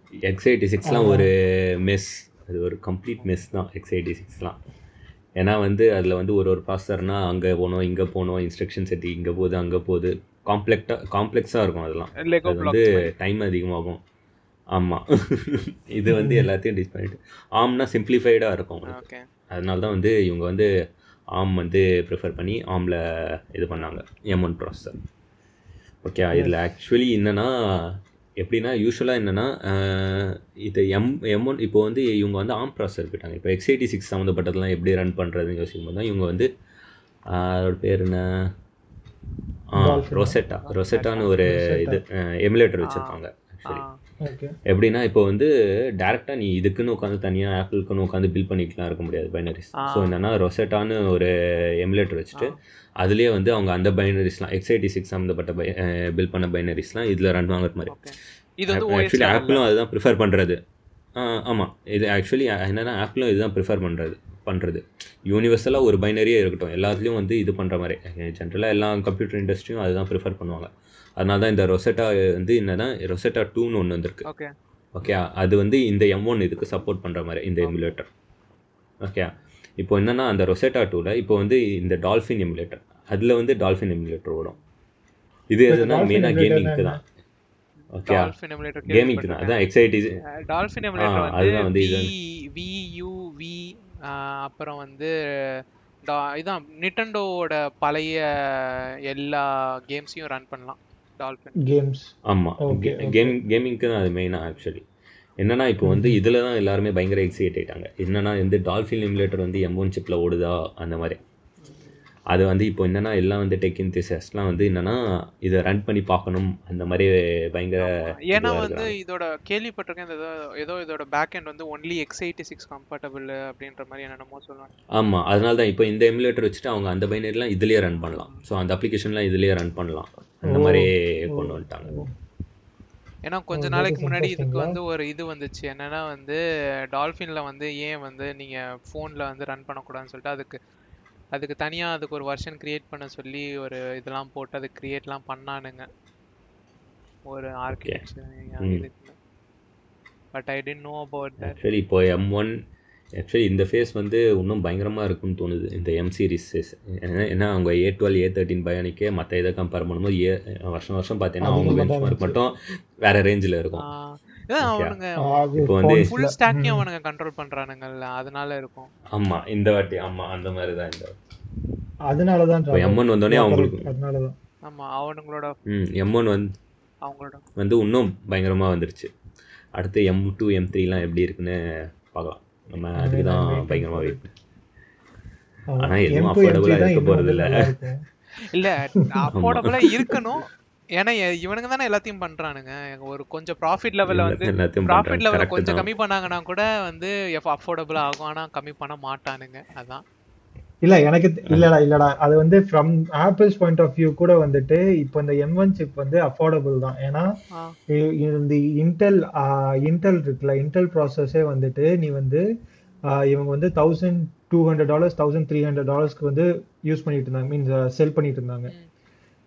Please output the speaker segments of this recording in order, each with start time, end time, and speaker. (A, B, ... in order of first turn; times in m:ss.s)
0:00.2-0:04.6 A
0:00.8-0:01.3 B
0:05.4-0:14.0 A
0:12.2-0:13.1 C
0:14.7-0:20.7 A
0:16.1-0:16.5 B
0:18.8-0:19.2 C
0:21.3-0:25.0 A
0:26.0-0:36.5 A
0:37.3-0:38.5 A
0:39.7-0:43.8 A
0:39.8-0:40.4 B
0:40.6-0:41.3 C
0:41.4-0:42.0 B
0:42.8-0:43.2 C
0:44.2-0:44.5 B
0:44.7-0:58.0 A
0:49.8-0:50.1 C
0:57.9-0:59.6 C
0:58.7-1:00.6 A
1:01.2-1:14.2 A
1:14.9-1:18.1 A
1:17.6-1:18.0 C
1:19.0-1:24.6 A
1:25.5-1:27.0 A
1:25.7-1:27.0 B
1:27.9-1:28.3 A
1:28.1-1:29.6 C
1:28.9-1:30.2 A
1:30.4-1:41.6 C
1:31.0-1:32.1 A
1:41.6-1:43.4 B
1:42.2-1:44.8 A
1:45.4-1:51.2 A
1:45.8-1:46.2 B
1:52.3-1:58.9 A
1:57.8-2:04.7 C
2:05.0-2:11.9 A
2:08.0-2:08.4 C
2:10.4-2:12.1 B
2:13.2-2:16.4 C
2:13.5-2:14.8 B
2:16.9-2:20.6 C
2:21.3-2:25.9 C
2:27.3-2:29.2 C
2:27.7-2:28.0 A
2:28.6-2:28.9 A
2:30.3-2:31.6 C
2:31.4-2:32.5 A
2:33.2-2:43.9 A
2:41.4-2:42.4 B
2:43.8-2:48.9 C
2:44.6-2:45.0 A
2:45.2-2:46.9 B
2:45.6-2:46.1 A
2:49.1-2:51.1 A
2:52.1-2:54.4 B
2:52.7-2:53.9 A
2:54.6-2:55.6 C
2:55.7-2:56.5 A
2:57.0-2:57.4 C
2:57.6-2:59.1 A
2:59.8-3:04.3 A
3:03.0-3:04.2 B
3:05.7-3:08.0 B
3:05.8-3:07.7 A
3:08.5-3:10.5 C
3:09.0-3:09.2 B
3:09.3-3:09.7 A
3:09.9-3:10.2 B
3:11.0-3:20.0 C
3:14.1-3:15.9 A
3:20.8-3:27.3 B
3:27.9-3:32.4 B
3:33.1-3:38.7 B